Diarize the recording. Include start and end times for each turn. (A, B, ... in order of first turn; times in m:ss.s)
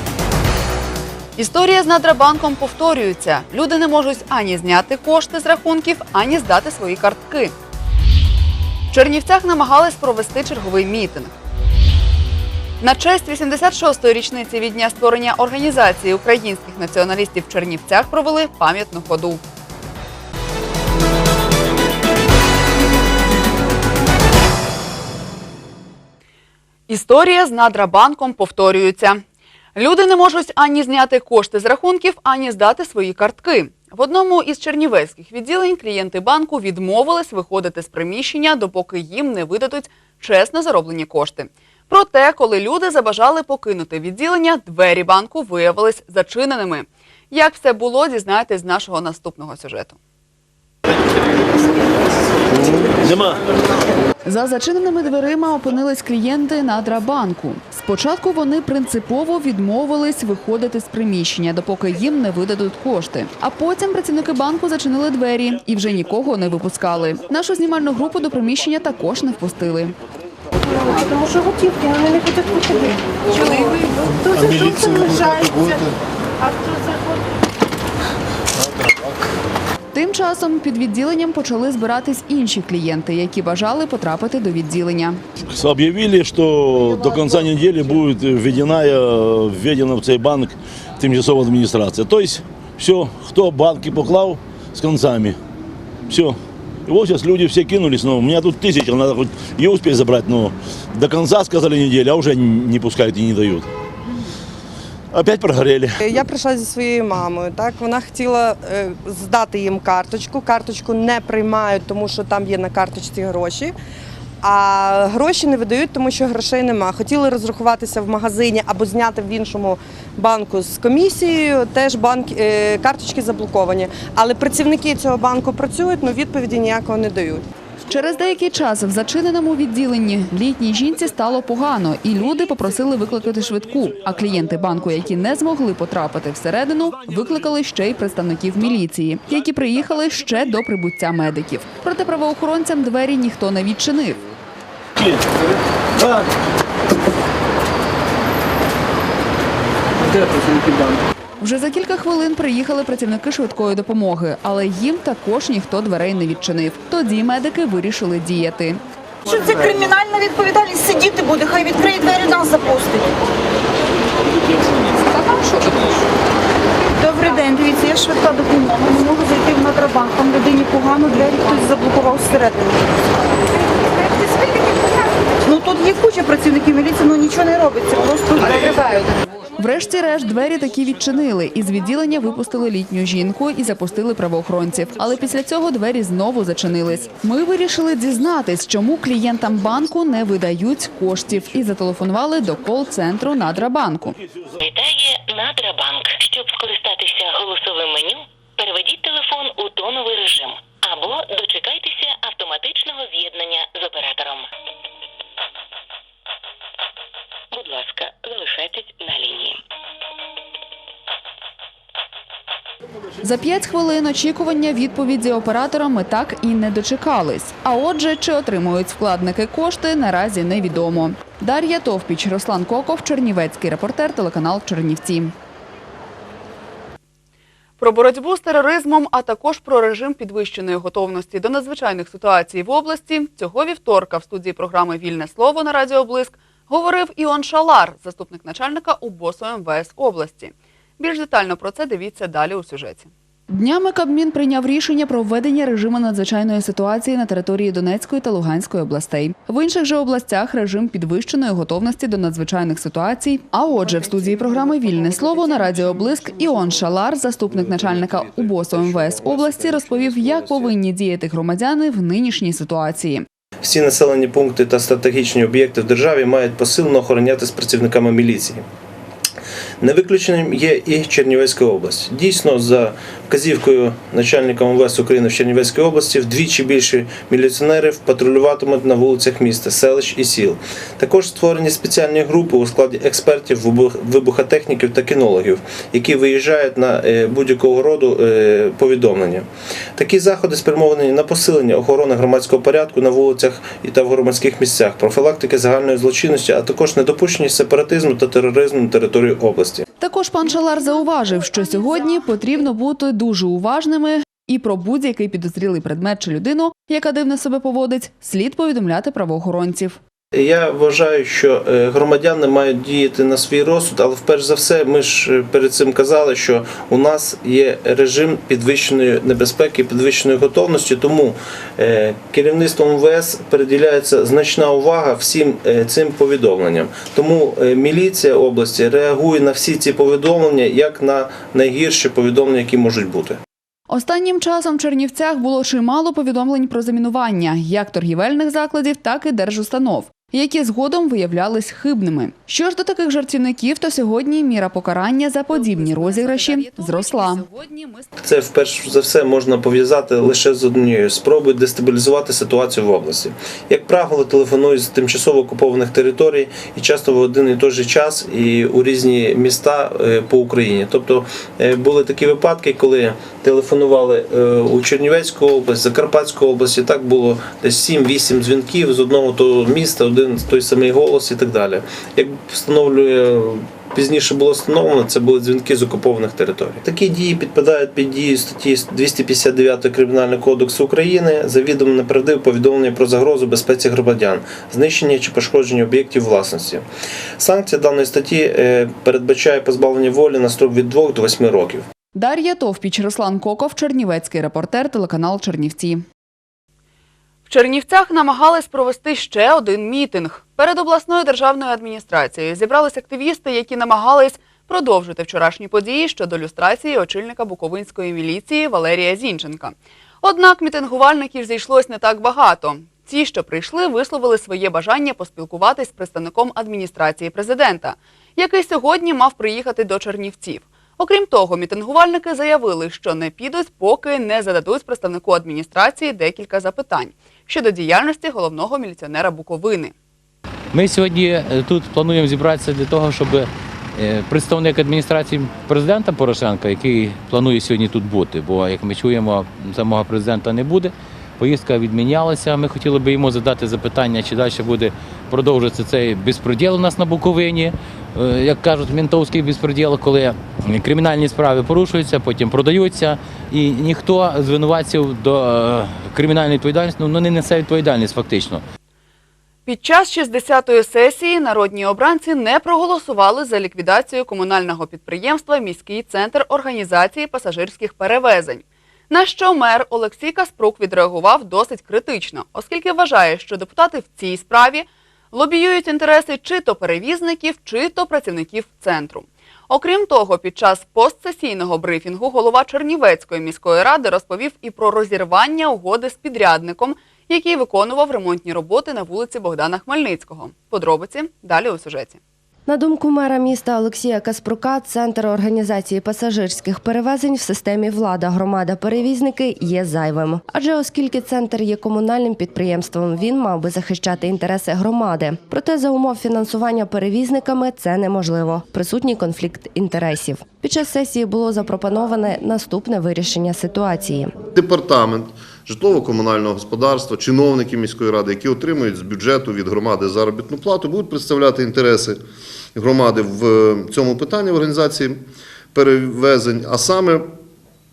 0:01.4-0:07.5 A
0:08.9-0:11.3 A
0:12.8-0:19.4 A
0:26.9-0:29.2 A
0:29.7-0:50.0 A
0:52.5-0:53.4 B
0:54.2-1:09.9 C
1:10.6-1:15.9 D
1:16.4-1:17.0 D
1:19.9-1:25.2 C
1:25.6-1:35.4 B
1:36.1-1:43.7 B
1:45.1-1:46.0 B
1:46.0-1:53.7 E
1:54.4-2:07.4 E
2:07.9-2:24.2 C
2:25.0-2:25.2 B
2:26.0-2:26.3 B
2:31.4-2:38.8 C
2:39.2-2:43.1 D
2:45.0-2:46.0 D
2:47.0-2:52.9 D
2:53.8-2:59.2 D
2:59.6-3:14.2 C
3:14.6-3:24.5 F
3:27.5-3:29.6 F
3:33.2-3:45.3 C
3:47.8-4:03.1 A
4:03.5-4:23.2 C
4:23.6-4:28.6 G
4:29.8-4:59.8 G
5:00.0-5:10.0 C
5:10.3-5:33.4 G
5:33.9-5:47.4 C
5:45.5-5:48.1 A
5:48.2-6:26.8 G
6:27.4-6:31.8 G
6:32.1-6:36.0 C
6:37.5-7:09.9 A
7:10.7-7:38.6 H
7:39.6-8:12.2 A
8:12.6-8:34.4 I
8:34.5-8:42.2 J
8:42.8-8:47.3 J